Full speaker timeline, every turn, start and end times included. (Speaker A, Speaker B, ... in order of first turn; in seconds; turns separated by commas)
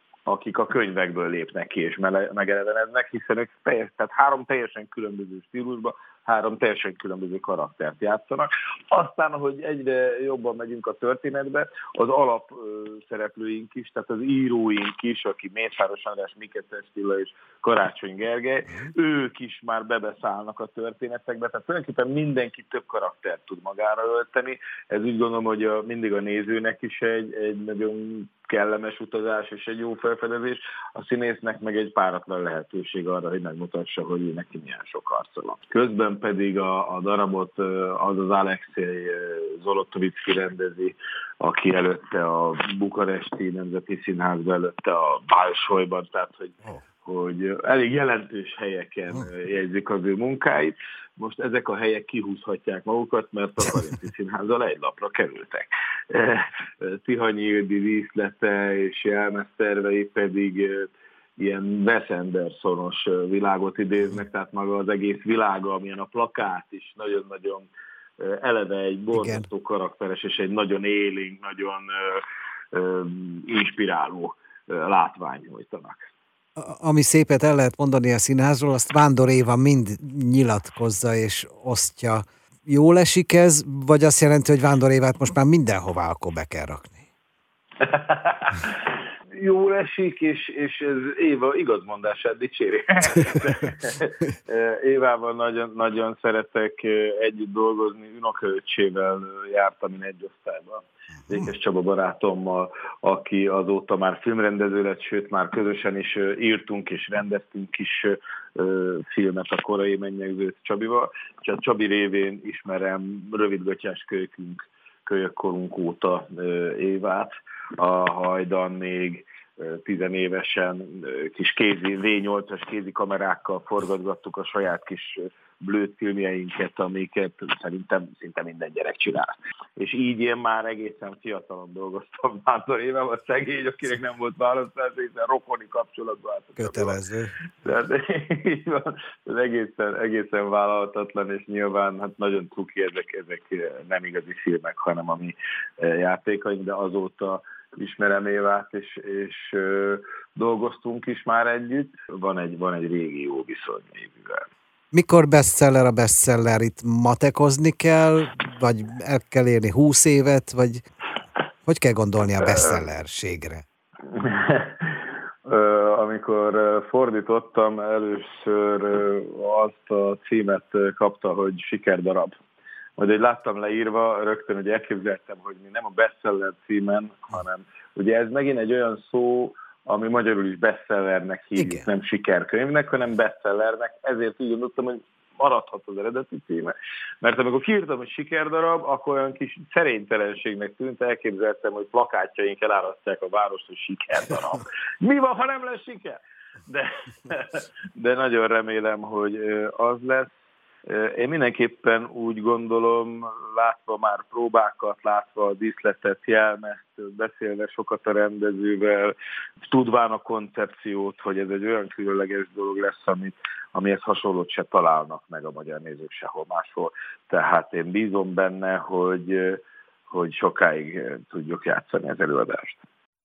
Speaker A: 0.2-76.1, Speaker B: 69.1-69.5, Speaker B: 76.6-87.0, Speaker A: 87.8-137.0, Speaker B: 136.6-137.3, Speaker A: 137.6-154.5, Speaker B: 154.9-160.8, Speaker B: 161.7-163.6, Speaker A: 164.1-172.4, Speaker A: 173.0-200.3, Speaker B: 181.6-181.8, Speaker A: 200.8-209.2, Speaker A: 209.7-222.8